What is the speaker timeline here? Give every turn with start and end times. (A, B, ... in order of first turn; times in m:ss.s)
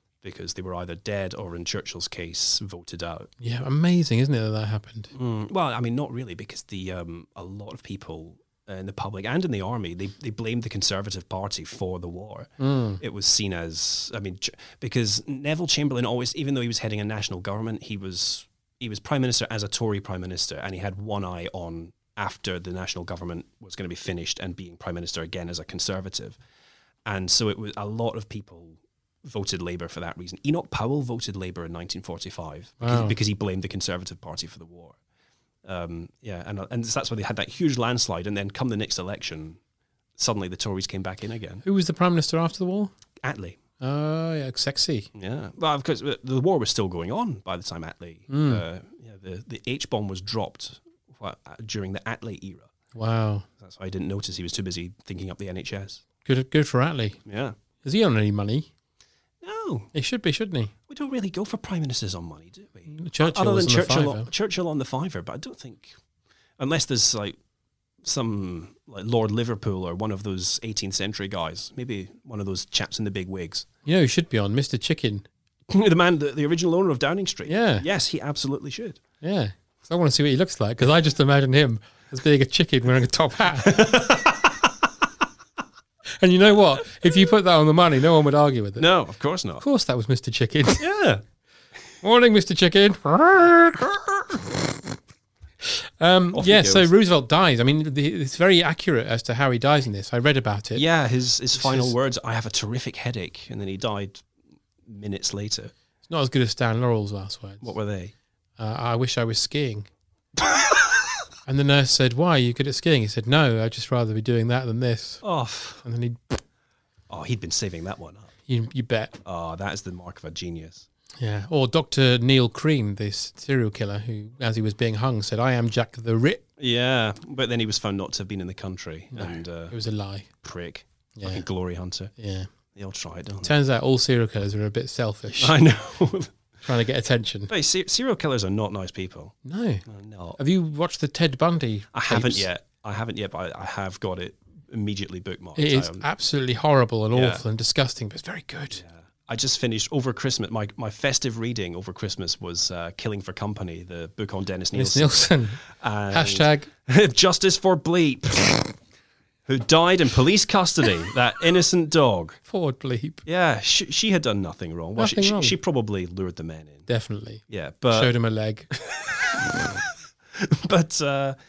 0:00.2-0:03.3 A
0:03.4-0:05.1 B
0:05.1-0:26.4 A
0:12.6-0:13.0 B
0:27.1-0:35.0 A
0:32.8-0:33.2 B
0:35.6-0:39.6 A
0:40.2-0:41.6 A
0:41.6-0:42.9 B
0:43.2-0:43.6 A
0:43.8-0:45.1 B
0:45.2-0:52.7 A
0:48.3-0:48.6 B
0:53.0-0:53.5 B
0:53.6-0:56.0 A
0:56.2-0:57.2 B
0:57.3-0:57.6 A
0:57.8-0:58.7 B
0:59.4-0:59.9 A
0:59.9-1:00.7 B
1:00.9-1:06.0 A
1:02.9-1:04.3 B
1:06.6-1:07.4 A
1:08.0-1:13.7 A
1:13.9-1:15.3 B
1:15.7-1:19.0 A
1:17.5-1:17.9 B
1:19.2-1:23.8 B
1:23.6-1:24.6 A
1:26.2-1:28.9 B
1:28.8-1:29.6 A
1:29.6-1:30.8 B
1:30.8-1:31.2 A
1:32.0-1:34.4 B
1:35.7-1:40.8 B
1:36.3-1:36.9 A
1:40.8-1:44.2 A
1:41.6-1:41.9 B
1:44.9-1:45.7 A
1:46.1-1:47.7 B
1:47.6-1:48.1 A
1:48.6-1:49.9 B
1:51.5-1:55.2 B
1:55.2-1:55.8 A
1:55.8-1:56.4 B
1:57.1-1:58.3 A
1:58.5-1:59.1 B
1:59.2-2:00.9 A
2:01.2-2:06.4 B
2:06.6-2:09.8 A
2:09.1-2:10.3 B
2:10.4-2:12.1 A
2:11.2-2:11.4 B
2:12.2-2:12.5 B
2:12.8-2:13.5 A
2:13.4-2:15.6 B
2:15.4-2:16.3 A
2:16.6-2:17.5 B
2:17.5-2:19.4 A
2:19.4-2:19.8 B
2:19.9-2:20.4 A
2:20.4-2:22.5 B
2:21.9-2:26.1 A
2:25.6-2:28.8 B
2:27.1-2:27.4 A
2:28.8-2:38.7 A
2:34.7-2:36.7 B
2:39.5-2:42.4 A
2:42.5-2:43.2 B
2:43.2-2:46.9 A
2:45.0-2:45.6 B
2:46.9-2:48.7 B
2:47.5-2:48.1 A
2:48.7-2:49.4 A
2:50.4-2:51.4 A